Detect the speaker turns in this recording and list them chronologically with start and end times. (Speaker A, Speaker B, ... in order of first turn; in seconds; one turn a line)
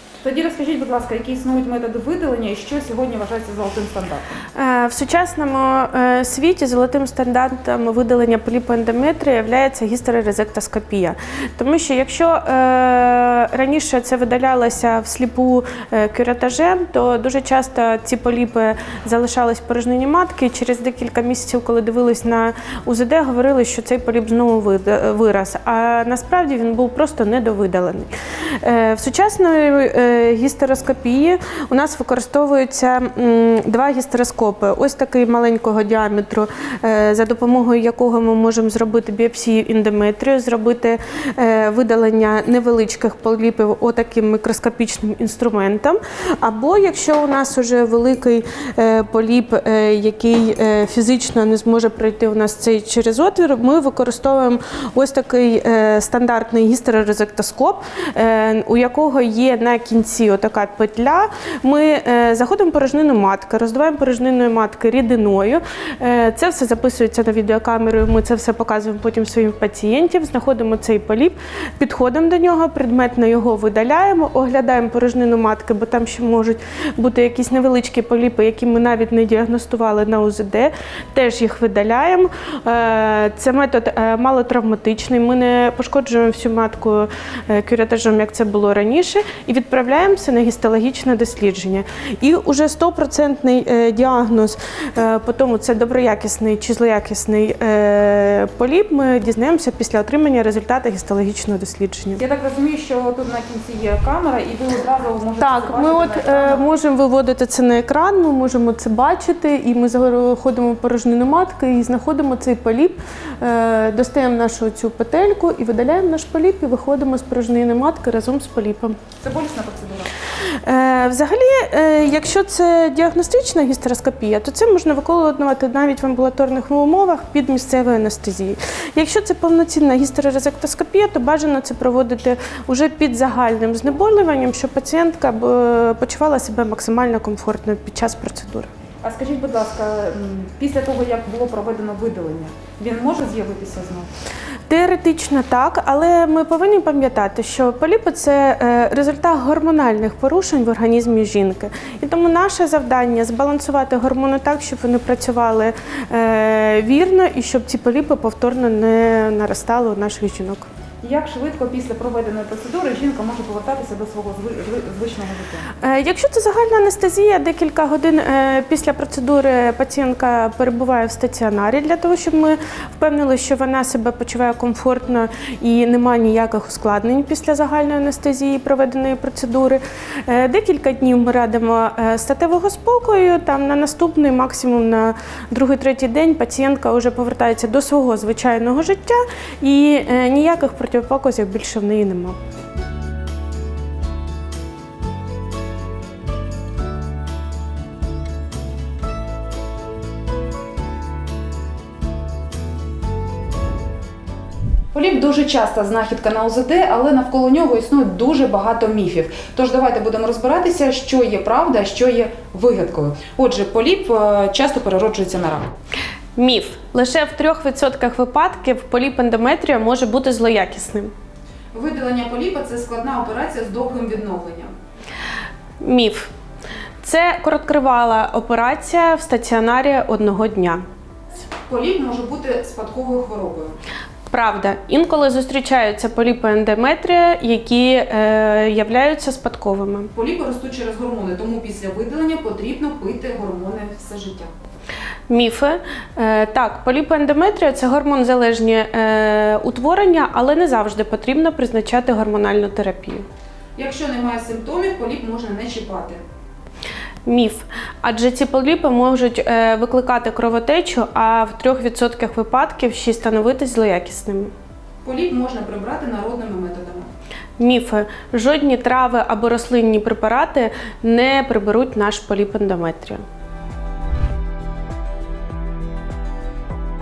Speaker A: 0.2-4.4
Speaker B: 4.6-28.1
Speaker B: 28.6-102.2
Speaker A: 102.2-106.7
Speaker B: 105.4-118.9
Speaker A: 119.2-120.1
Speaker B: 120.6-138.7
Speaker A: 139.0-144.1
Speaker B: 144.7-160.7
Speaker A: 161.0-165.7
Speaker B: 165.8-192.4
Speaker A: 204.9-215.7
Speaker B: 216.3-221.1
Speaker A: 221.7-224.7
Speaker B: 225.8-226.3
Speaker B: 227.0-230.8
Speaker A: 231.7-233.8
Speaker B: 234.3-240.1
Speaker A: 240.1-244.5
Speaker B: 245.3-253.2
Speaker A: 253.8-256.2
Speaker B: 257.2-264.5
Speaker A: 265.0-267.1
Speaker B: 267.6-273.2